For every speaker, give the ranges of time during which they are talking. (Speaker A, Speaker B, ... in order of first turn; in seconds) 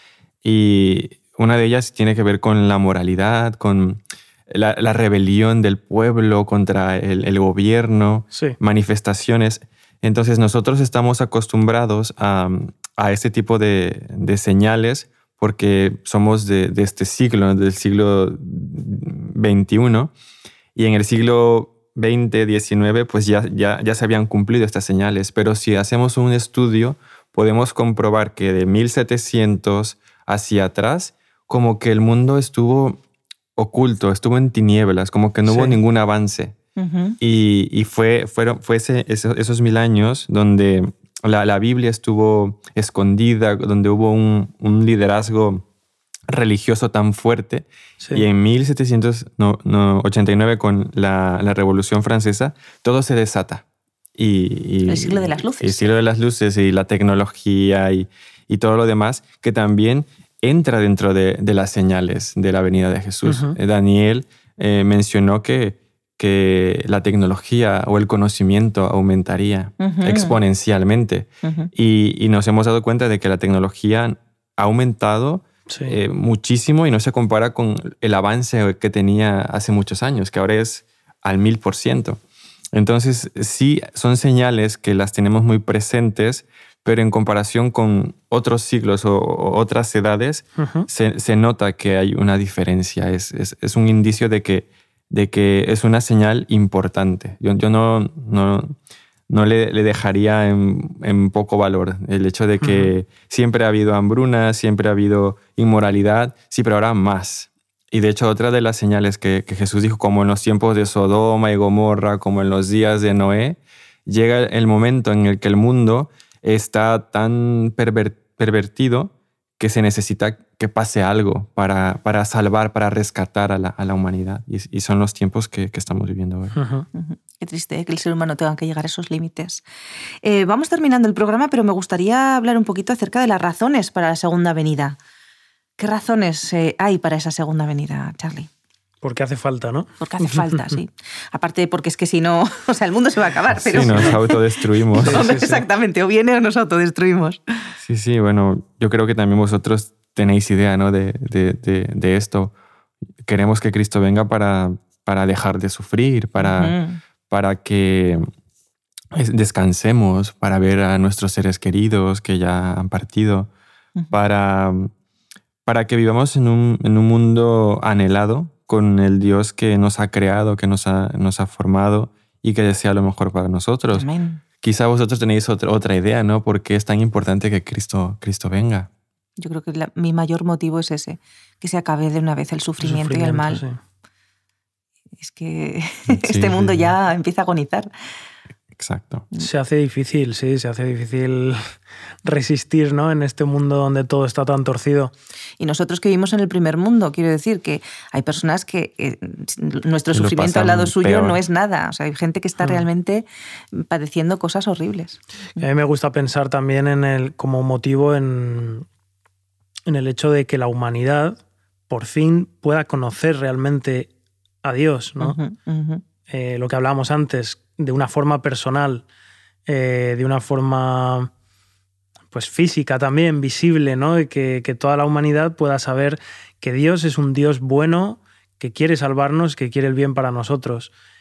Speaker A: 0.4-20.1, 20.8-33.0, 33.6-36.6, 37.2-45.6, 46.3-53.6, 54.2-82.2, 82.7-98.8, 99.3-126.6, 143.6-145.2, 147.8-152.5, 153.2-156.8, 157.3-158.3, 159.1-163.5, 164.1-164.9, 165.7-174.1, 174.6-178.9, 186.1-186.9, 188.8-189.3, 200.1-201.4
Speaker B: 35.5-35.8, 63.3-63.6, 75.7-76.0, 90.6-90.9, 102.6-102.9, 126.5-126.9, 139.0-140.8, 143.8-144.1, 145.0-145.6, 182.8-183.8, 189.4-195.1, 202.6-202.9, 205.6-208.9, 209.9-214.1, 214.6-215.4, 216.3-219.1, 219.7-221.3, 222.3-230.9
Speaker C: 36.8-37.2, 54.9-55.9, 69.8-70.4, 71.4-71.7, 126.9-129.6, 130.2-135.0, 135.8-138.5, 140.0-144.4, 145.0-147.4, 156.4-157.0, 173.9-174.4, 179.4-183.6, 185.2-187.9, 195.6-205.7, 215.2-216.0